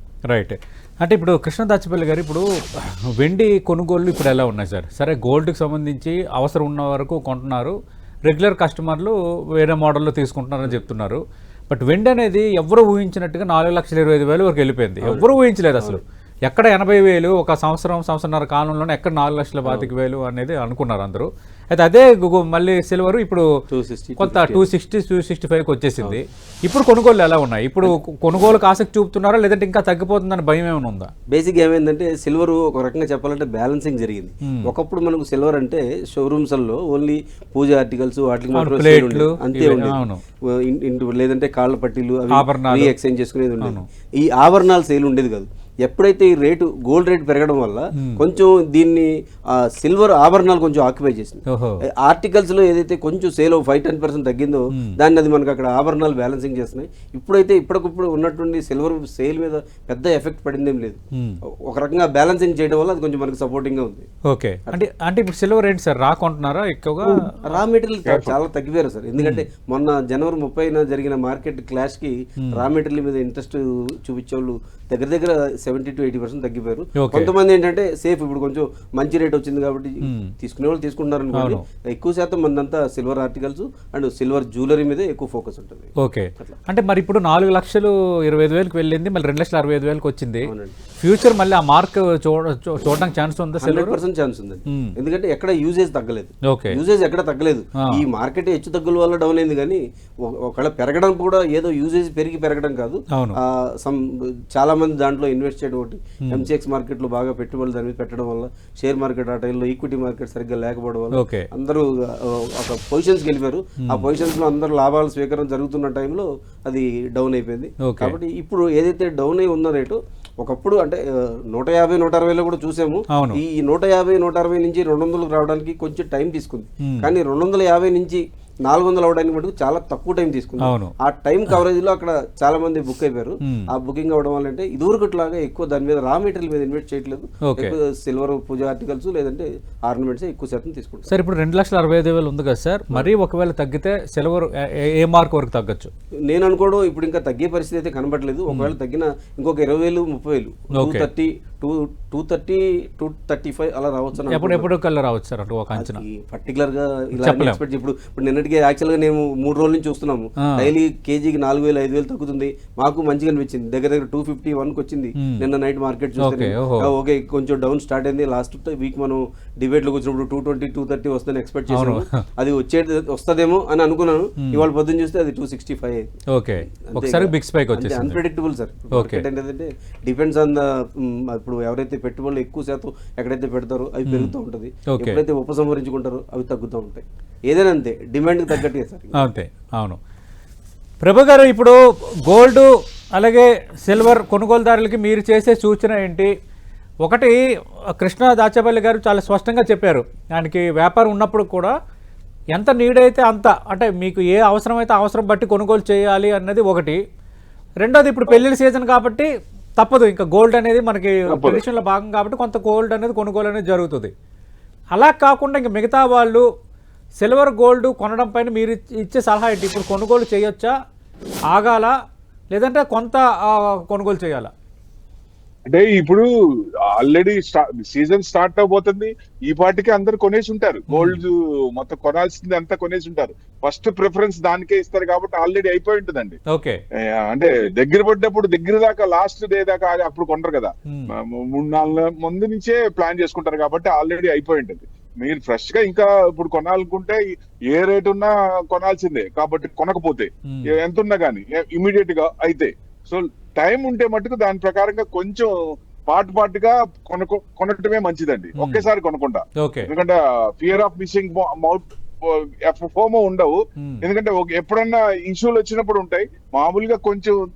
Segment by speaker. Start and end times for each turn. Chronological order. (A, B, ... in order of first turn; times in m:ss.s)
0:00.3-0:23.5 A
0:15.0-0:16.0 B
0:19.6-0:19.9 B
0:23.7-0:24.7 B
0:24.2-0:31.1 A
0:31.3-1:01.0 B
0:34.4-0:34.7 A
0:38.5-0:40.2 A
0:42.3-0:42.9 A
0:43.6-0:43.9 A
0:48.0-0:48.2 A
0:51.5-0:51.8 A
0:54.7-0:55.0 A
1:01.1-1:01.4 A
1:01.6-1:04.1 B
1:04.3-1:07.3 A
1:07.0-1:26.6 B
1:08.1-1:08.4 C
1:09.2-1:09.5 A
1:12.4-1:12.6 A
1:17.0-1:17.3 A
1:20.0-1:20.3 A
1:21.3-1:21.6 A
1:26.0-1:34.0 A
1:30.5-1:30.8 B
1:33.6-2:21.1 B
1:34.7-1:35.0 A
1:36.5-1:36.8 A
1:43.1-1:43.4 A
1:46.2-1:46.5 A
1:51.1-1:51.5 A
1:53.8-1:54.1 A
1:57.8-1:58.2 A
2:03.1-2:03.4 A
2:06.8-2:07.1 A
2:10.6-2:10.9 A
2:13.4-2:13.7 A
2:17.4-2:17.8 A
2:21.1-2:25.9 A
2:26.3-2:34.7 B
2:30.8-2:31.1 A
2:34.3-2:36.0 A
2:35.8-2:56.1 B
2:37.2-2:37.6 A
2:40.4-2:40.7 A
2:45.2-2:45.5 A
2:46.2-2:46.9 A
2:51.7-2:52.2 A
2:54.4-2:54.7 A
2:56.3-2:58.2 A
2:56.9-3:09.3 B
2:58.9-2:59.2 A
3:04.1-3:04.4 A
3:04.9-3:05.2 A
3:09.2-3:10.0 A
3:11.0-3:16.3 A
3:17.0-3:17.4 A
3:17.9-3:21.7 A
3:22.5-3:27.0 A
3:27.8-3:34.1 A
3:31.3-3:31.6 C
3:34.9-3:36.4 A
3:37.2-3:40.7 A
3:41.5-3:41.9 A
3:42.5-3:44.5 A
3:45.7-3:46.3 C
3:46.8-3:56.4 C
3:50.9-3:51.2 A
3:56.5-3:56.8 A
3:57.0-4:15.5 C
4:00.9-4:01.1 A
4:10.5-4:10.7 A
4:16.1-4:27.4 C
4:18.6-4:18.9 A
4:19.6-4:19.9 A